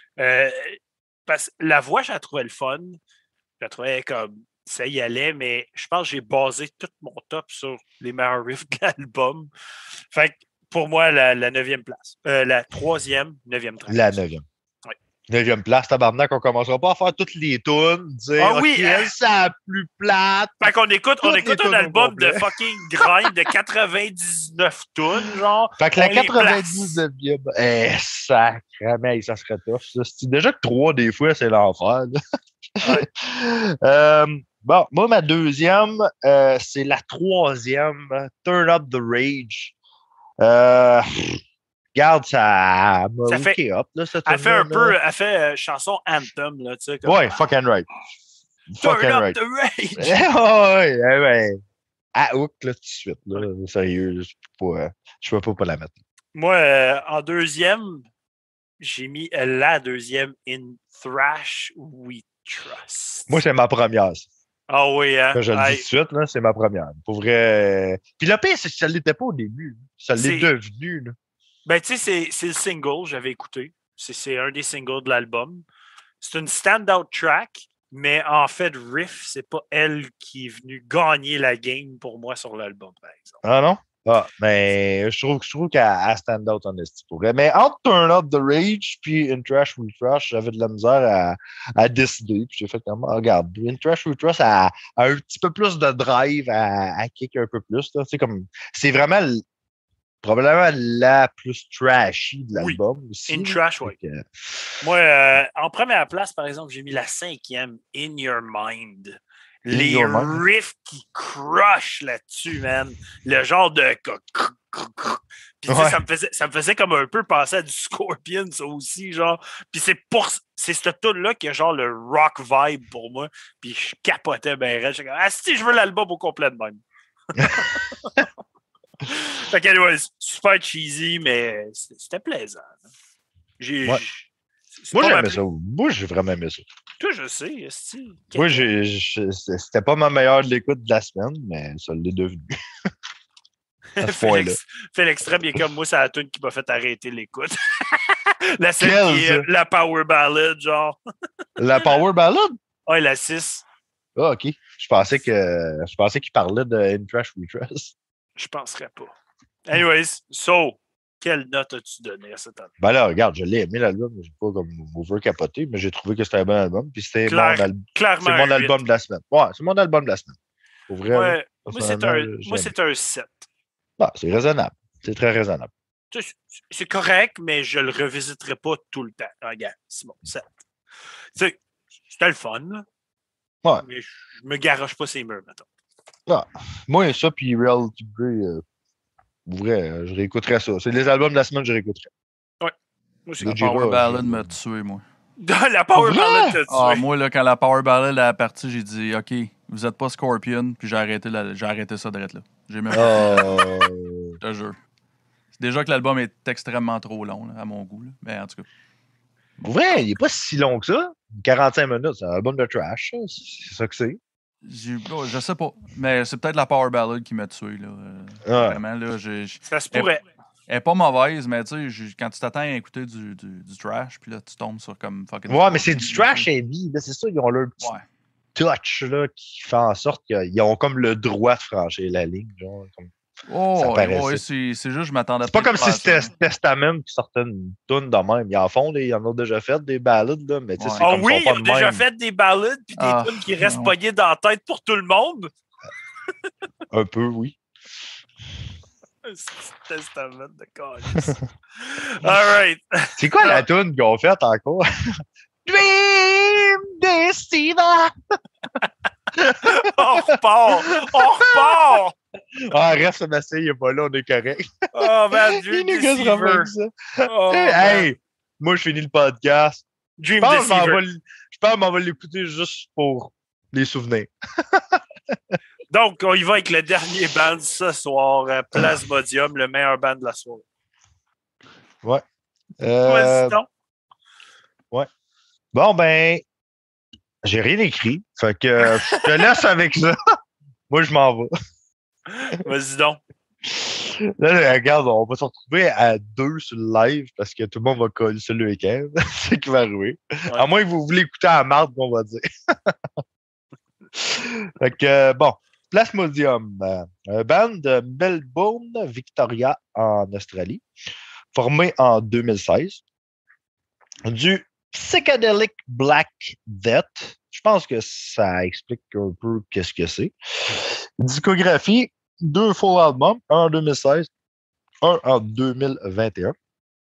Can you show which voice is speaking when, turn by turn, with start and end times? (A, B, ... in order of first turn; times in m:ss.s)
0:00.2-0:03.0 A
0:03.6-0:09.5 A
0:10.1-0:14.2 A
0:13.9-0:14.4 B
0:15.3-0:23.3 B
0:18.4-0:19.1 A
0:20.6-0:27.0 A
0:25.8-0:32.2 B
0:32.8-0:39.8 B
0:40.4-0:41.4 B
0:42.0-0:45.0 B
0:43.3-0:43.6 A
0:44.3-0:47.4 A
0:47.0-0:47.9 B
0:48.7-0:49.4 B
0:48.8-0:50.2 A
0:50.0-0:51.6 B
0:52.2-0:56.0 B
0:56.4-0:58.1 A
0:58.8-1:03.4 A
1:03.3-1:04.3 B
1:04.7-1:05.8 A
1:05.3-1:11.1 B
1:10.2-1:10.5 A
1:11.7-1:15.6 A
1:16.2-1:23.4 A
1:23.4-1:39.4 B
1:40.2-1:44.6 B
1:42.6-1:44.0 A
1:44.8-2:06.8 A
1:49.7-1:50.4 B
1:55.7-1:56.0 B
2:07.3-2:08.3 A
2:07.4-2:07.7 B
2:09.1-2:12.8 A
2:13.6-2:15.4 A
2:14.9-2:16.6 B
2:17.0-2:18.7 A
2:18.3-2:22.9 B
2:24.0-2:31.0 A
2:24.0-2:24.6 B
2:28.8-2:29.5 B
2:31.6-2:32.6 B
2:32.9-2:33.6 A
2:34.2-2:37.9 B
2:38.4-2:39.1 A
2:39.7-2:42.7 A
2:42.8-2:50.4 B
2:47.3-2:48.8 A
2:50.9-2:52.7 B
2:51.1-2:53.5 A
2:54.0-2:55.7 B
2:56.1-3:00.5 A
3:02.1-3:02.8 A
3:03.8-3:05.7 A
3:06.3-3:08.6 B
3:09.5-3:12.1 B
3:13.3-3:13.5 A
3:13.4-3:14.5 B
3:13.4-3:15.0 C
3:15.4-3:17.0 A
3:15.9-3:16.6 B
3:16.7-3:23.7 C
3:22.9-3:24.4 B
3:24.4-3:24.8 C
3:25.6-3:28.7 C
3:29.6-3:34.2 B
3:34.6-3:40.1 C
3:38.5-3:38.8 B
3:39.7-3:40.2 A
3:40.7-3:46.5 C
3:45.5-3:47.9 B
3:48.6-3:53.1 B
3:53.5-3:56.3 C
3:53.8-3:54.4 B
3:55.4-4:02.0 B
4:00.8-4:01.1 C
4:01.0-4:05.5 A
4:03.0-4:03.9 C
4:06.9-4:07.6 B
4:09.2-4:13.6 A
4:13.2-4:14.8 B
4:15.6-4:18.1 B
4:19.3-4:19.9 B
4:19.6-4:22.1 A
4:20.7-4:22.0 B
4:22.6-4:29.8 B
4:24.9-4:26.7 A
4:27.2-4:28.1 A
4:30.2-4:31.0 A
4:30.4-4:35.6 B
4:35.9-4:40.6 A
4:42.8-4:43.6 B
4:43.0-4:43.7 A
4:45.7-4:46.4 B
4:47.4-4:50.4 B
4:48.8-4:49.4 A
4:50.9-4:51.5 B
4:52.3-4:53.2 A
4:53.6-5:03.2 B
5:04.2-5:10.8 B
5:11.5-5:13.0 B
5:14.3-5:24.3 B
5:25.0-5:26.6 B